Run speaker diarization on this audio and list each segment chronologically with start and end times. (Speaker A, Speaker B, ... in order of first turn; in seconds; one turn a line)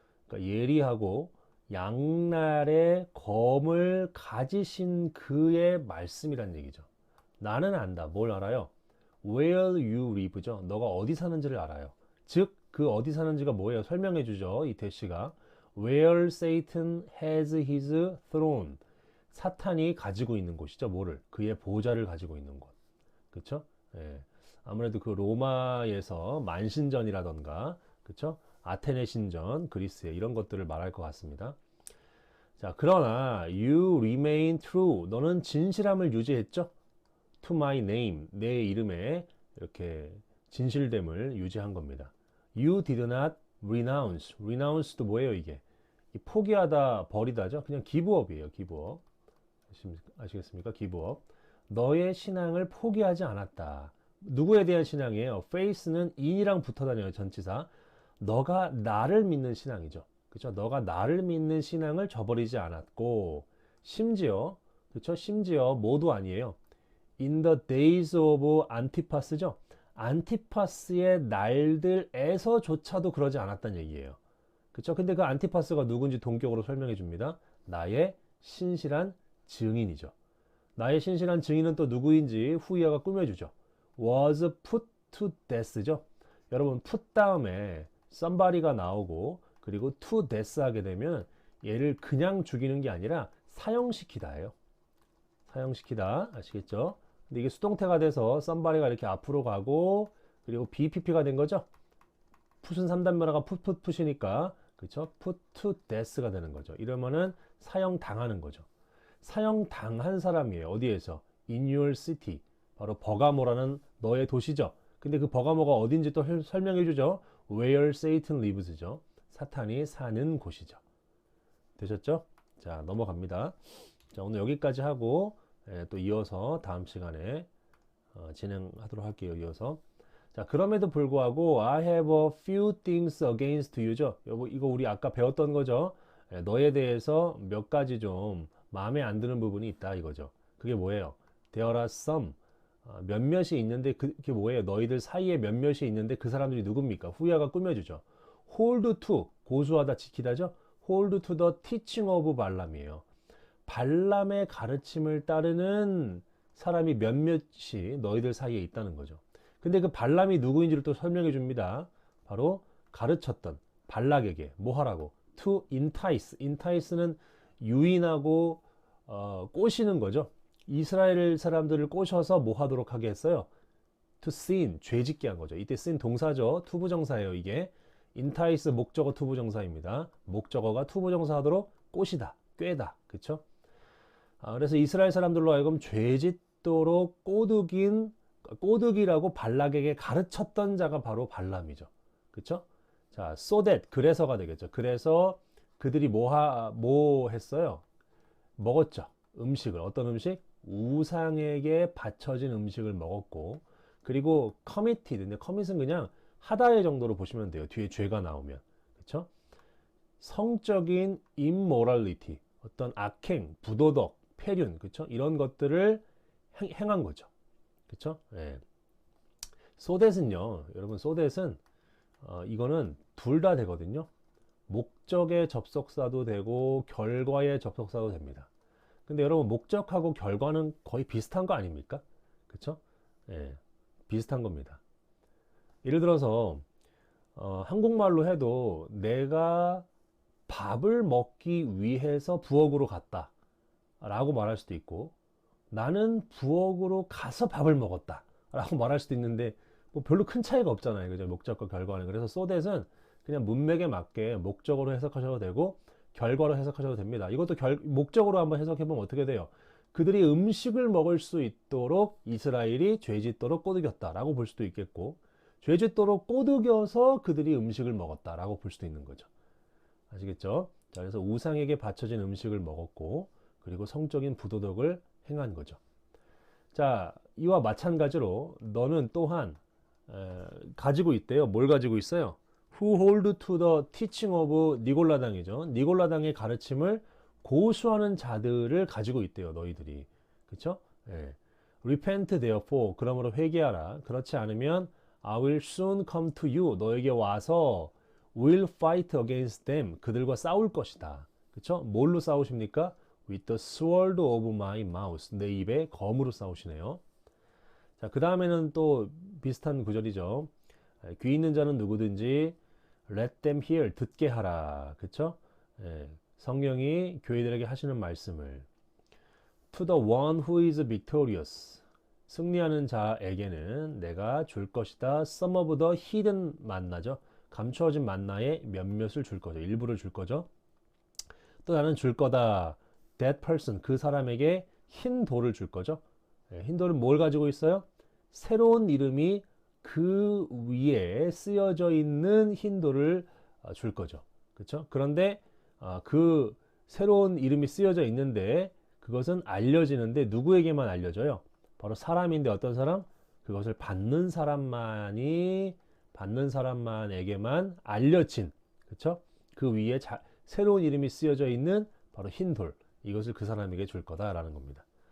Speaker A: 0.3-6.9
Speaker A: 7.4-8.7
Speaker A: 9.2-22.7
Speaker A: 23.3-31.6
Speaker A: 32.6-36.7
Speaker A: 37.4-49.0
Speaker A: 49.7-66.6
Speaker A: 67.2-74.2
Speaker A: 74.7-80.1
Speaker A: 80.8-94.5
Speaker A: 95.5-101.7
Speaker A: 102.6-108.7
Speaker A: 109.2-120.8
Speaker A: 121.8-127.5
Speaker A: 128.1-129.8
Speaker A: 130.3-153.0
Speaker A: 153.7-173.5
Speaker A: 174.2-183.4
Speaker A: 184.4-197.8
Speaker A: 198.6-209.3
Speaker A: 210.2-217.3
Speaker A: 217.9-218.6
Speaker A: 219.8-221.6
Speaker A: 222.2-224.1
Speaker A: 224.7-228.5
Speaker A: 229.1-234.8
Speaker A: 235.8-236.7
Speaker A: 237.3-239.9
Speaker A: 240.5-243.3
Speaker A: 244.0-245.2
Speaker A: 245.7-269.3
Speaker A: 270.1-275.8
Speaker A: 276.7-307.0
Speaker A: 308.0-310.5
Speaker A: 311.0-312.6
Speaker A: 313.1-318.7
Speaker A: 319.7-330.5
Speaker A: 331.6-364.8